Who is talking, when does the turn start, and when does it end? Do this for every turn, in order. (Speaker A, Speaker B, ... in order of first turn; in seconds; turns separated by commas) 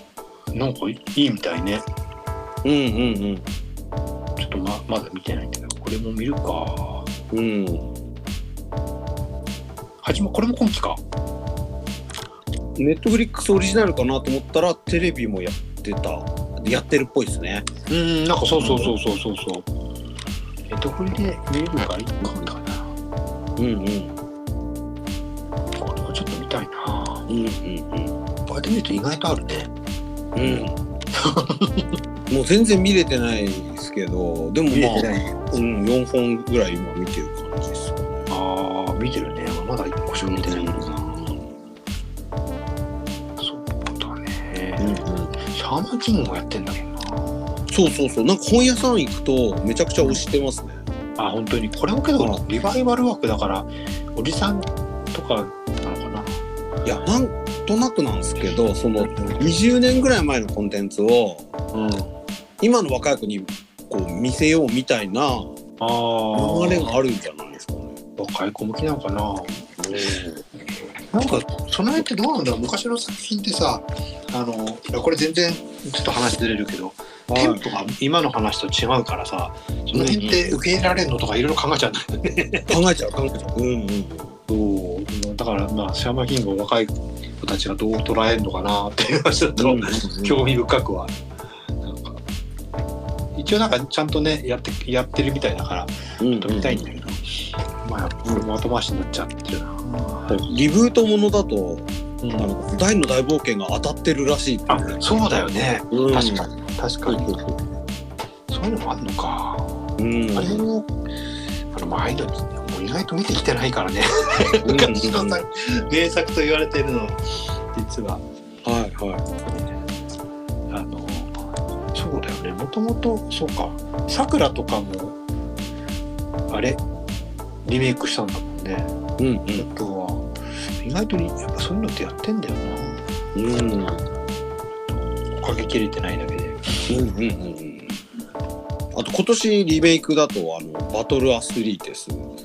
Speaker A: 0.5-1.9, Speaker B: 2.6-3.5, Speaker A: 4.4-7.1, Speaker B: 7.3-7.9, Speaker A: 10.0-11.0, Speaker B: 12.8-17.7, Speaker A: 17.9-19.7, Speaker B: 18.6-19.0, Speaker A: 20.7-22.9, Speaker B: 22.2-22.5, Speaker B: 23.6-24.2, Speaker A: 25.8-27.3, Speaker B: 27.3-28.1, Speaker A: 28.5-29.7, Speaker B: 30.4-30.8, Speaker A: 30.4-31.9, Speaker B: 32.3-38.3, Speaker A: 34.7-35.4, Speaker A: 38.3-40.9, Speaker B: 40.2-41.5, Speaker A: 43.4-47.6, Speaker B: 44.8-45.4, Speaker B: 47.7-50.8, Speaker A: 51.2-56.4, Speaker B: 56.9-61.5, Speaker A: 59.0-59.5, Speaker A: 61.7-62.1, Speaker B: 62.6-65.5, Speaker A: 65.8-66.9, Speaker B: 66.3-68.0, Speaker A: 68.2-70.2, Speaker B: 69.8-70.4, Speaker A: 71.1-82.8, Speaker B: 77.3-77.7, Speaker B: 79.9-80.5, Speaker B: 82.7-84.4, Speaker A: 84.5-91.1, Speaker B: 89.6-90.4, Speaker A: 91.8-92.2, Speaker A: 93.3-100.4, Speaker B: 96.2-97.1, Speaker B: 100.3-105.0, Speaker A: 102.2-102.5, Speaker A: 104.7-107.3, Speaker B: 105.9-106.5, Speaker B: 107.1-107.6, Speaker A: 108.5-109.8, Speaker B: 110.0-110.6, Speaker A: 110.3-110.9, Speaker A: 111.7-118.2, Speaker B: 114.7-115.4, Speaker B: 118.6-119.2, Speaker A: 120.7-121.3, Speaker A: 121.9-125.2, Speaker A: 126.5-126.8, Speaker A: 127.7-128.9, Speaker B: 129.2-129.7, Speaker A: 129.6-130.3, Speaker A: 130.8-133.0, Speaker B: 133.3-134.0, Speaker A: 134.9-136.8, Speaker B: 136.9-138.0, Speaker B: 138.9-142.3